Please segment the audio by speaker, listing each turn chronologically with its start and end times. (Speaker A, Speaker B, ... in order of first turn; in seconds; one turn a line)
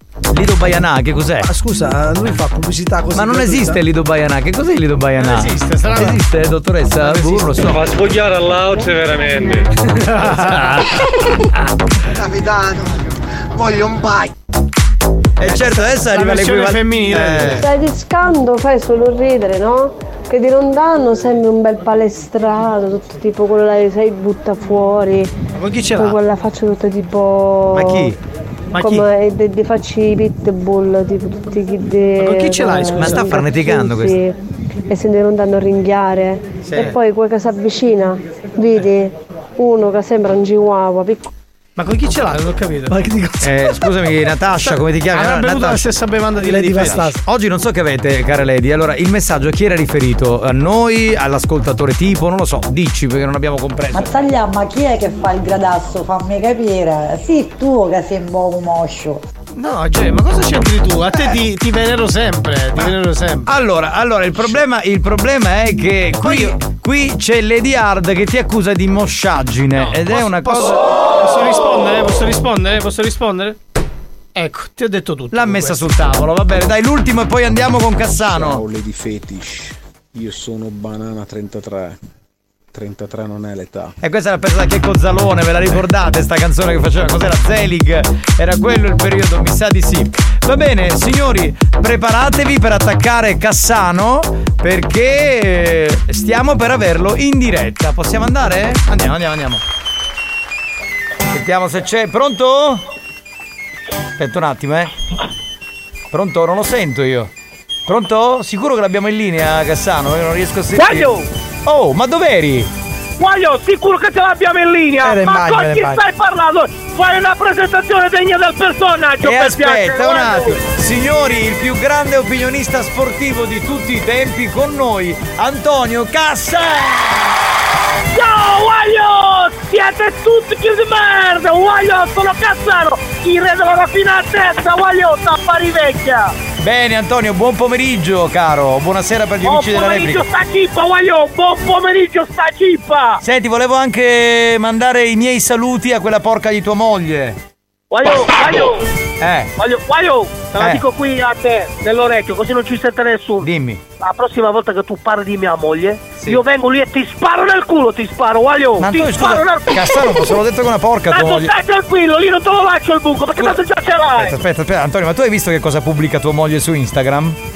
Speaker A: 0.3-1.5
Speaker B: 1.4-3.8
Speaker A: 3.1-7.9
Speaker C: 5.2-6.2
Speaker C: 10.0-10.8
Speaker A: 10.3-11.0
Speaker A: 15.4-17.7
Speaker C: 15.4-17.7
Speaker D: 17.6-25.3
Speaker C: 25.6-26.2
Speaker D: 26.0-28.1
Speaker A: 27.7-28.2
Speaker C: 28.8-29.1
Speaker D: 28.8-34.4
Speaker C: 32.2-33.4
Speaker A: 33.0-34.2
Speaker D: 34.9-41.3
Speaker A: 36.6-37.0
Speaker C: 41.8-43.1
Speaker B: 42.9-43.5
Speaker A: 43.4-45.9
Speaker C: 44.6-47.1
Speaker A: 46.4-54.1
Speaker B: 46.5-47.1
Speaker E: 53.9-59.2
Speaker C: 59.5-63.5
Speaker A: 63.5-70.8
Speaker C: 66.2-66.5
Speaker C: 69.8-73.6
Speaker C: 74.3-75.8
Speaker A: 75.3-78.7
Speaker A: 84.0-99.6
Speaker A: 101.3-102.8
Speaker A: 104.2-104.9
Speaker A: 106.1-107.3
Speaker A: 107.9-111.1
Speaker F: 110.8-111.3
Speaker A: 111.7-112.7
Speaker F: 113.2-120.6
Speaker B: 115.0-116.0
Speaker A: 119.2-127.2
Speaker F: 128.1-136.3
Speaker A: 136.6-140.2
Speaker F: 139.4-143.2
Speaker A: 143.2-147.4
Speaker F: 147.9-148.8
Speaker A: 149.2-149.5
Speaker F: 149.6-153.5
Speaker A: 150.6-150.8
Speaker A: 153.4-153.8
Speaker F: 154.0-160.3
Speaker A: 158.8-161.5
Speaker F: 161.1-164.3
Speaker A: 164.2-167.4